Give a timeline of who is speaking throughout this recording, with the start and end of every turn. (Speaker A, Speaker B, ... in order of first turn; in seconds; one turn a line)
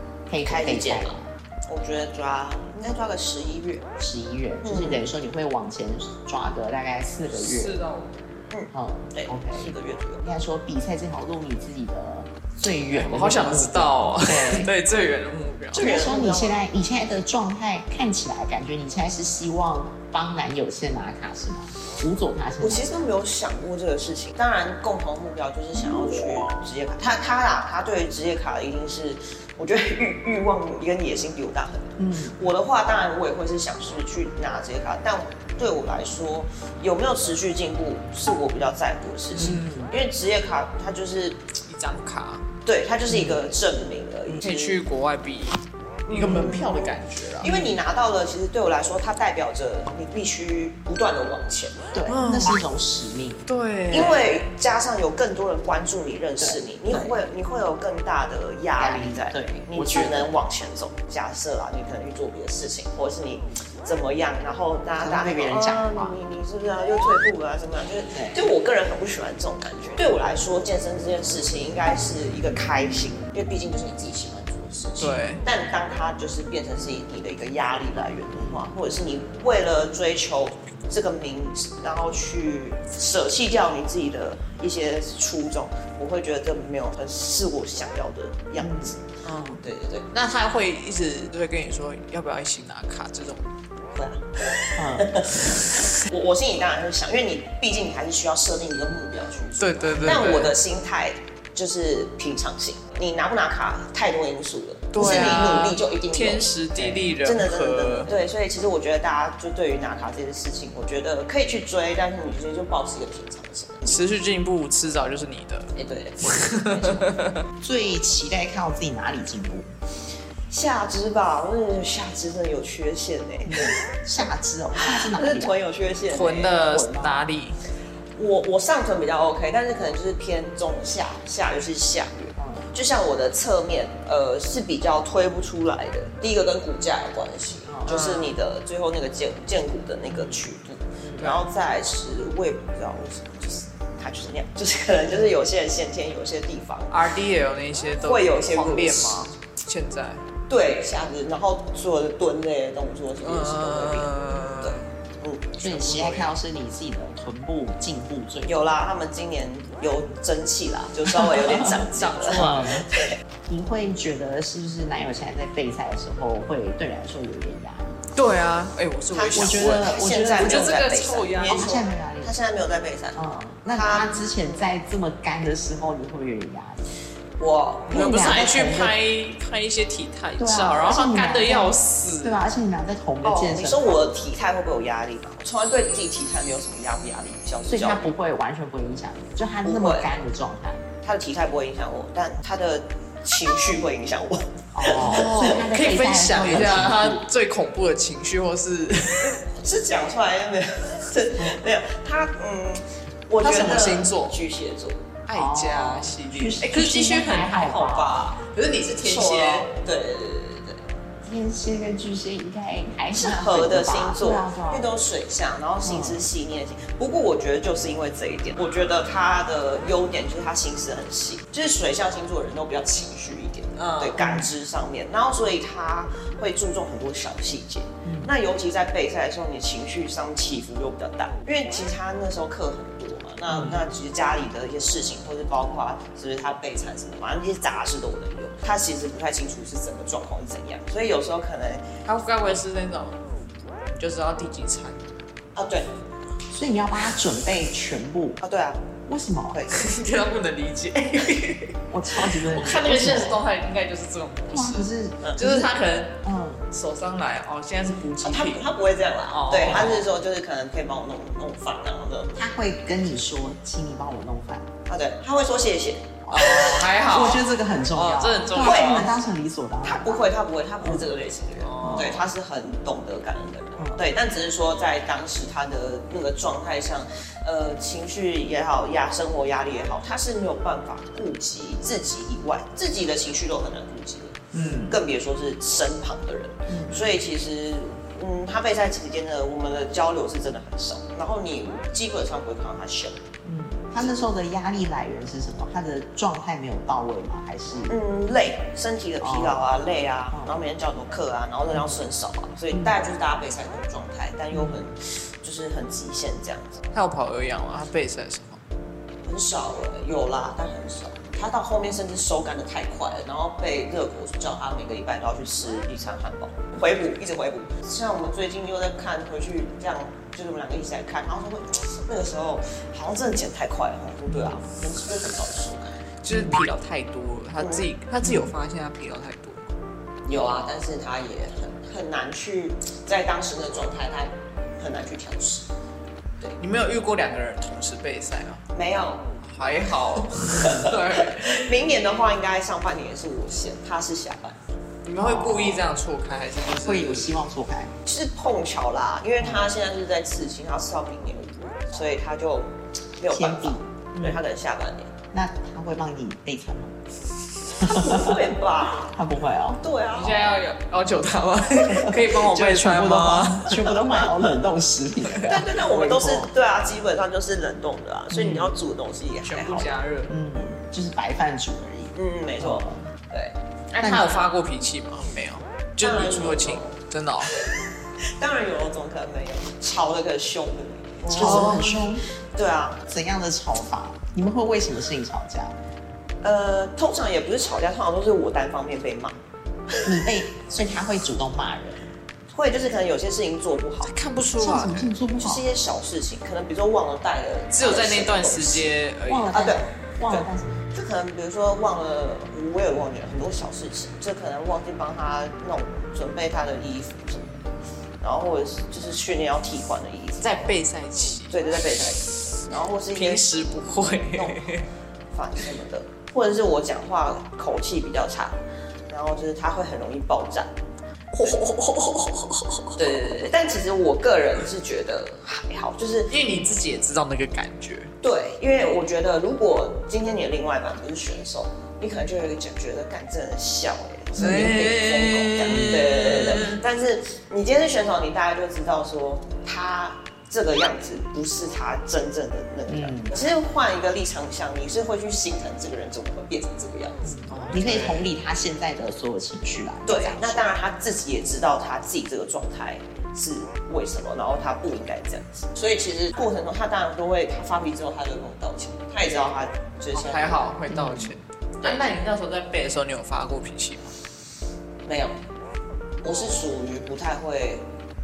Speaker A: 0.3-1.3
Speaker B: 0.5-3.9
Speaker A: 4.0-7.8
Speaker B: 4.6-5.0
Speaker C: 7.3-8.5
Speaker B: 8.5-10.2
Speaker A: 8.7-14.7
Speaker C: 12.9-15.9
Speaker A: 15.7-23.1
Speaker B: 15.7-16.6
Speaker B: 22.6-41.4
Speaker A: 32.0-32.4
Speaker C: 39.3-39.7
Speaker A: 39.3-39.9
Speaker C: 41.6-42.5
Speaker B: 42.6-44.8
Speaker A: 43.1-43.4
Speaker C: 44.4-47.5
Speaker B: 46.1-51.9
Speaker A: 46.2-46.6
Speaker A: 47.4-47.8
Speaker A: 51.9-53.5
Speaker C: 52.1-52.6
Speaker C: 53.5-54.4
Speaker B: 53.9-89.1
Speaker A: 56.4-57.1
Speaker A: 58.8-60.3
Speaker A: 65.0-66.2
Speaker A: 68.1-68.4
Speaker C: 75.0-75.4
Speaker A: 78.3-78.7
Speaker A: 88.6-88.9
Speaker C: 89.2-93.5
Speaker B: 89.6-90.1
Speaker B: 93.9-114.0
Speaker A: 94.8-95.3
Speaker C: 99.6-100.6
Speaker C: 104.9-108.1
Speaker A: 105.0-105.4
Speaker C: 113.8-117.5
Speaker B: 115.8-117.1
Speaker A: 117.6-119.7
Speaker B: 120.5-123.8
Speaker A: 123.5-125.5
Speaker B: 124.8-126.6
Speaker C: 126.1-127.6
Speaker A: 126.6-127.2
Speaker B: 128.2-147.0
Speaker A: 132.4-132.7
Speaker A: 137.7-138.0
Speaker C: 137.8-138.3
Speaker A: 140.1-140.4
Speaker A: 141.0-141.3
Speaker C: 141.2-141.4
Speaker C: 146.9-150.2
Speaker B: 148.0-149.3
Speaker B: 150.5-156.3
Speaker C: 153.2-154.9
Speaker A: 155.6-158.7
Speaker B: 158.4-163.2
Speaker C: 161.7-162.8
Speaker A: 162.3-162.9
Speaker A: 163.5-168.0
Speaker C: 168.1-171.8
Speaker B: 169.1-174.2
Speaker A: 169.3-170.8
Speaker A: 171.4-172.3
Speaker A: 173.1-176.9
Speaker B: 177.4-178.5
Speaker A: 177.9-178.9
Speaker C: 177.9-182.5
Speaker A: 180.4-184.1
Speaker B: 183.2-188.0
Speaker A: 187.7-190.8
Speaker B: 189.6-190.1
Speaker B: 191.0-195.7
Speaker A: 194.7-197.2
Speaker C: 194.9-199.4
Speaker B: 199.4-205.1
Speaker C: 203.4-204.4
Speaker A: 203.4-204.0
Speaker C: 205.3-209.7
Speaker A: 205.3-208.2
Speaker B: 208.8-210.8
Speaker A: 211.2-214.9
Speaker B: 213.1-241.9
Speaker A: 215.8-216.3
Speaker C: 223.8-224.2
Speaker A: 224.2-224.5
Speaker A: 228.0-228.3
Speaker A: 233.5-233.8
Speaker C: 242.1-243.2
Speaker C: 243.9-245.0
Speaker B: 245.6-245.9
Speaker A: 246.5-248.4
Speaker B: 248.4-248.8
Speaker A: 249.1-249.7
Speaker B: 249.5-249.8
Speaker C: 249.7-258.7
Speaker A: 251.9-253.4
Speaker A: 254.5-255.7
Speaker A: 256.2-256.7
Speaker B: 258.2-262.4
Speaker C: 259.3-260.1
Speaker A: 259.7-259.9
Speaker A: 262.4-264.7
Speaker B: 264.9-266.2
Speaker A: 266.2-270.3
Speaker C: 266.3-269.1
Speaker B: 268.5-269.1
Speaker B: 269.8-293.2
Speaker C: 271.6-272.2
Speaker A: 271.8-272.2
Speaker A: 284.5-284.9
Speaker C: 284.6-284.8
Speaker A: 286.7-287.1
Speaker A: 293.4-298.0
Speaker B: 297.9-306.8
Speaker A: 299.2-299.7
Speaker A: 300.3-300.6
Speaker A: 301.7-302.0
Speaker A: 304.5-304.8
Speaker C: 306.9-308.6
Speaker B: 309.2-326.0
Speaker A: 324.3-324.6
Speaker C: 326.2-329.8
Speaker A: 326.3-326.6
Speaker B: 327.6-327.9
Speaker A: 328.2-328.5
Speaker B: 330.2-335.7
Speaker C: 336.6-338.6
Speaker B: 338.7-339.3
Speaker C: 339.4-341.7
Speaker B: 340.5-344.6
Speaker C: 345.0-347.4
Speaker A: 345.2-345.9
Speaker A: 346.7-347.9
Speaker B: 348.0-355.1
Speaker A: 349.4-349.7
Speaker A: 353.3-354.4
Speaker A: 355.3-356.9
Speaker A: 357.8-359.8
Speaker B: 357.8-359.1
Speaker B: 359.8-360.4
Speaker C: 360.1-363.9
Speaker A: 361.8-366.5
Speaker B: 363.8-364.2
Speaker B: 365.4-369.9
Speaker A: 368.3-368.7
Speaker C: 369.4-370.3
Speaker A: 370.3-373.1
Speaker B: 372.1-373.5
Speaker C: 373.9-377.5
Speaker A: 374.0-374.3
Speaker B: 376.0-377.0
Speaker B: 378.4-382.0
Speaker C: 381.3-382.0
Speaker A: 381.3-382.3
Speaker B: 382.5-383.1
Speaker A: 383.1-385.8
Speaker B: 386.4-389.4
Speaker A: 390.0-392.1
Speaker B: 392.5-394.1
Speaker C: 394.0-395.1
Speaker A: 394.6-395.6
Speaker B: 395.4-399.0
Speaker C: 397.7-399.6
Speaker A: 399.3-400.8
Speaker B: 399.5-407.7
Speaker B: 408.2-410.6
Speaker C: 410.4-411.8
Speaker B: 411.5-414.7
Speaker C: 413.1-414.9
Speaker B: 415.3-418.6
Speaker B: 419.1-420.7
Speaker C: 421.3-423.0
Speaker B: 422.9-426.3
Speaker C: 426.3-428.1
Speaker B: 428.2-447.5
Speaker A: 434.4-434.8
Speaker C: 434.4-436.8
Speaker A: 435.7-436.4
Speaker A: 442.9-443.3
Speaker A: 447.2-450.7
Speaker C: 447.5-448.2
Speaker B: 450.1-460.6
Speaker C: 460.1-464.1
Speaker A: 460.9-461.3
Speaker B: 465.1-465.4
Speaker B: 466.2-467.9
Speaker C: 466.3-466.6